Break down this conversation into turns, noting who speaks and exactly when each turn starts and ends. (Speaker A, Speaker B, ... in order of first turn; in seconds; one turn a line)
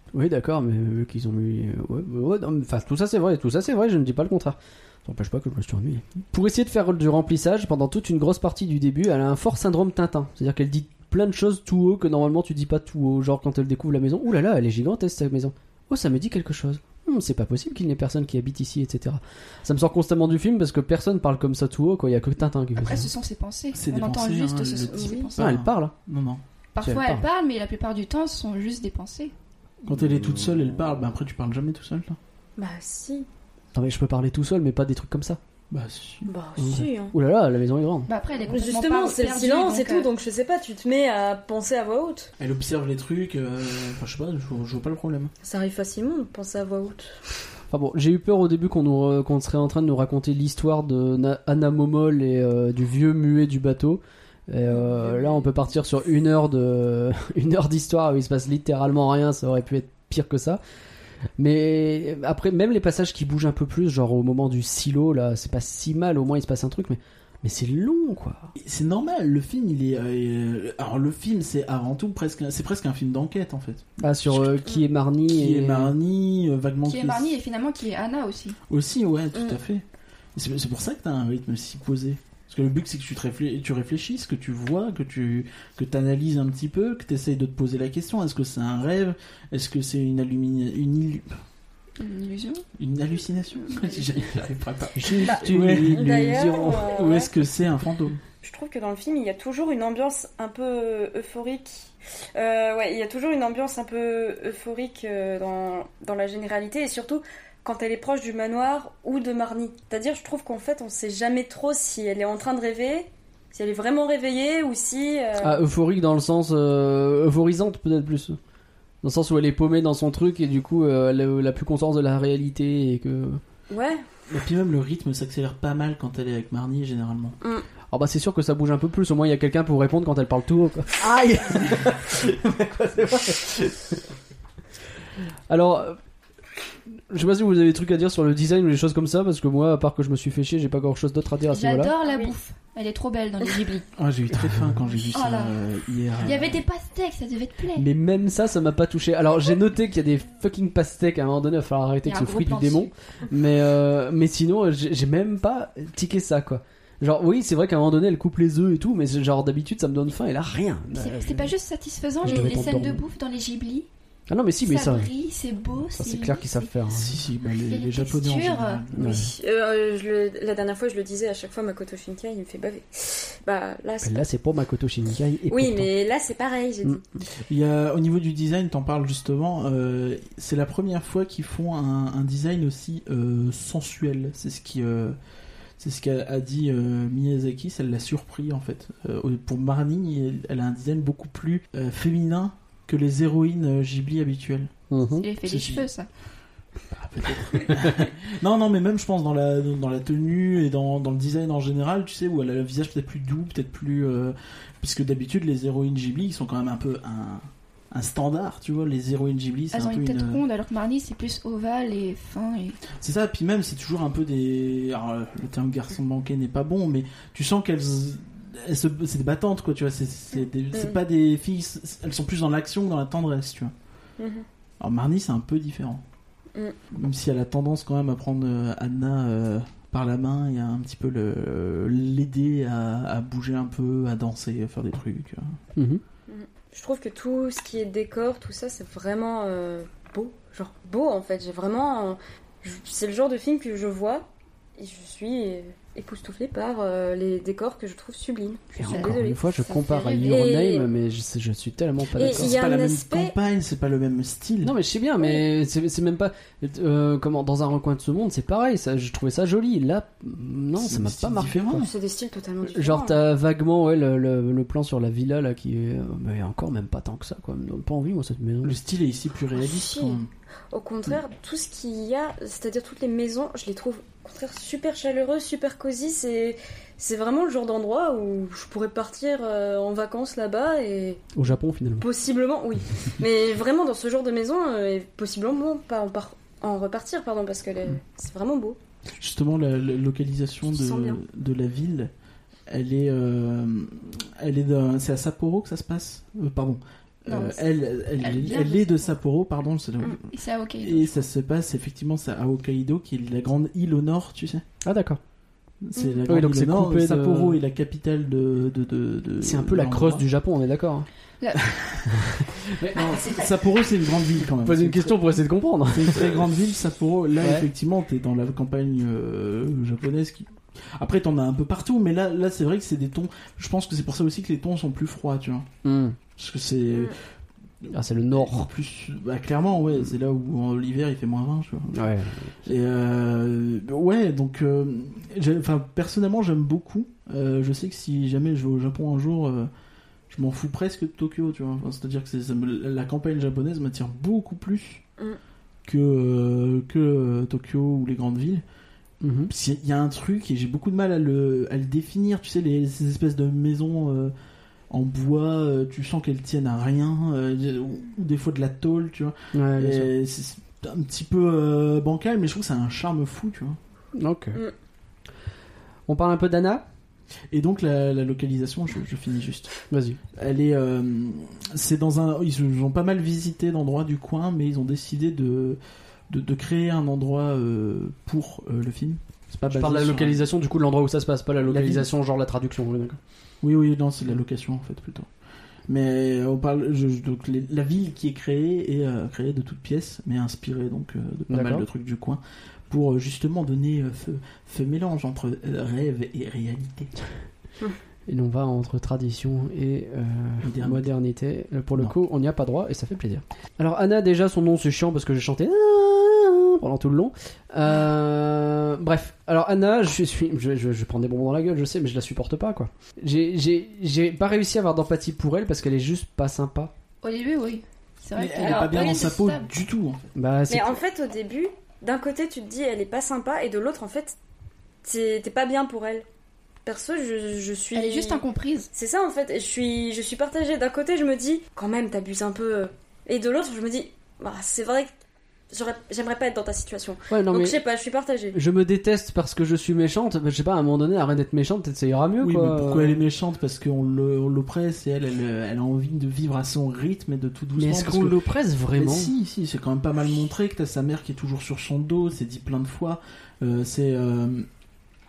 Speaker A: 0.1-23.1
Speaker B: 22.8-25.4
Speaker C: 23.7-26.4
Speaker D: 24.9-25.3
Speaker A: 25.4-25.9
Speaker B: 26.8-29.3
Speaker A: 26.8-27.3
Speaker C: 29.9-32.2
Speaker D: 32.6-33.3
Speaker A: 33.7-35.4
Speaker C: 35.7-36.3
Speaker D: 36.3-37.1
Speaker A: 36.6-38.1
Speaker B: 38.1-40.1
Speaker D: 38.4-42.3
Speaker C: 42.4-45.3
Speaker D: 45.4-47.2
Speaker A: 47.7-60.6
Speaker A: 61.4-68.5
Speaker C: 68.6-74.7
Speaker A: 74.0-75.9
Speaker C: 75.3-77.4
Speaker B: 76.9-78.6
Speaker C: 78.7-79.8
Speaker C: 80.3-91.3
Speaker B: 92.0-92.6
Speaker C: 92.8-98.2
Speaker A: 95.0-96.5
Speaker D: 95.2-97.3
Speaker D: 98.4-115.6
Speaker A: 115.4-118.4
Speaker A: 119.0-123.4
Speaker D: 123.7-124.0
Speaker C: 124.3-127.4
Speaker A: 127.9-134.0
Speaker A: 135.5-136.0
Speaker A: 137.1-141.9
Speaker B: 141.5-143.9
Speaker D: 142.0-142.3
Speaker C: 144.0-146.6
Speaker B: 145.1-145.6
Speaker B: 146.2-147.9
Speaker A: 147.8-161.5
Speaker B: 152.1-152.9
Speaker B: 160.9-163.9
Speaker A: 162.2-163.0
Speaker A: 164.3-165.1
Speaker B: 164.7-166.7
Speaker A: 166.0-167.1
Speaker C: 166.9-169.2
Speaker B: 167.7-168.8
Speaker A: 168.9-169.3
Speaker D: 169.0-174.2
Speaker A: 174.0-175.9
Speaker D: 175.5-177.0
Speaker C: 177.4-185.2
Speaker C: 185.8-194.7
Speaker A: 194.9-195.3
Speaker B: 195.2-196.1
Speaker C: 195.4-195.9
Speaker C: 196.9-210.4
Speaker B: 209.7-212.8
Speaker C: 212.9-223.7
Speaker D: 220.7-221.0
Speaker D: 224.2-224.5
Speaker C: 224.8-226.0
Speaker C: 226.9-235.6
Speaker A: 235.8-236.0
Speaker D: 236.3-244.3
Speaker D: 244.8-249.4
Speaker A: 248.8-252.6
Speaker B: 248.8-250.5
Speaker D: 250.2-250.9
Speaker D: 252.2-253.3
Speaker C: 252.2-254.7
Speaker A: 254.6-261.9
Speaker C: 260.8-261.9
Speaker D: 261.7-263.2
Speaker A: 262.7-268.8
Speaker C: 268.6-270.3
Speaker D: 269.6-270.2
Speaker D: 270.7-281.5
Speaker A: 281.4-282.1
Speaker D: 282.0-288.8
Speaker C: 289.2-292.1
Speaker D: 290.7-291.2
Speaker C: 292.7-300.3
Speaker B: 297.3-297.6
Speaker B: 298.1-299.1
Speaker B: 300.3-301.2
Speaker C: 300.8-304.6
Speaker A: 304.8-305.2
Speaker C: 305.8-310.2
Speaker D: 306.0-306.2
Speaker A: 306.3-307.6
Speaker A: 309.4-311.1
Speaker B: 311.4-311.7
Speaker A: 312.1-313.4
Speaker C: 312.9-315.2
Speaker A: 314.6-316.5
Speaker C: 315.9-325.7
Speaker A: 317.4-317.7
Speaker A: 325.8-326.2
Speaker C: 326.4-327.2
Speaker D: 326.9-327.2
Speaker C: 327.8-332.0
Speaker A: 327.9-328.7
Speaker A: 331.9-332.6
Speaker C: 332.6-339.7
Speaker C: 340.3-345.0
Speaker C: 345.9-348.6
Speaker A: 349.2-349.5
Speaker C: 349.5-354.3
Speaker C: 354.9-363.8
Speaker A: 359.5-360.1
Speaker A: 364.2-364.6
Speaker A: 366.1-366.8
Speaker C: 367.5-369.7
Speaker A: 369.9-370.2
Speaker C: 370.3-380.4
Speaker A: 379.7-383.2
Speaker C: 381.6-382.1
Speaker C: 383.6-385.3
Speaker C: 385.9-397.1
Speaker A: 391.5-391.9
Speaker A: 398.3-416.9
Speaker C: 400.6-401.1
Speaker B: 417.2-419.6
Speaker C: 418.4-420.3
Speaker D: 418.6-419.3
Speaker A: 420.4-421.0
Speaker D: 420.7-424.4
Speaker D: 425.0-426.2
Speaker D: 426.9-435.1
Speaker B: 427.9-428.9
Speaker D: 435.7-438.6
Speaker A: 437.3-437.8
Speaker A: 438.5-443.2
Speaker C: 442.4-454.7
Speaker A: 447.8-449.3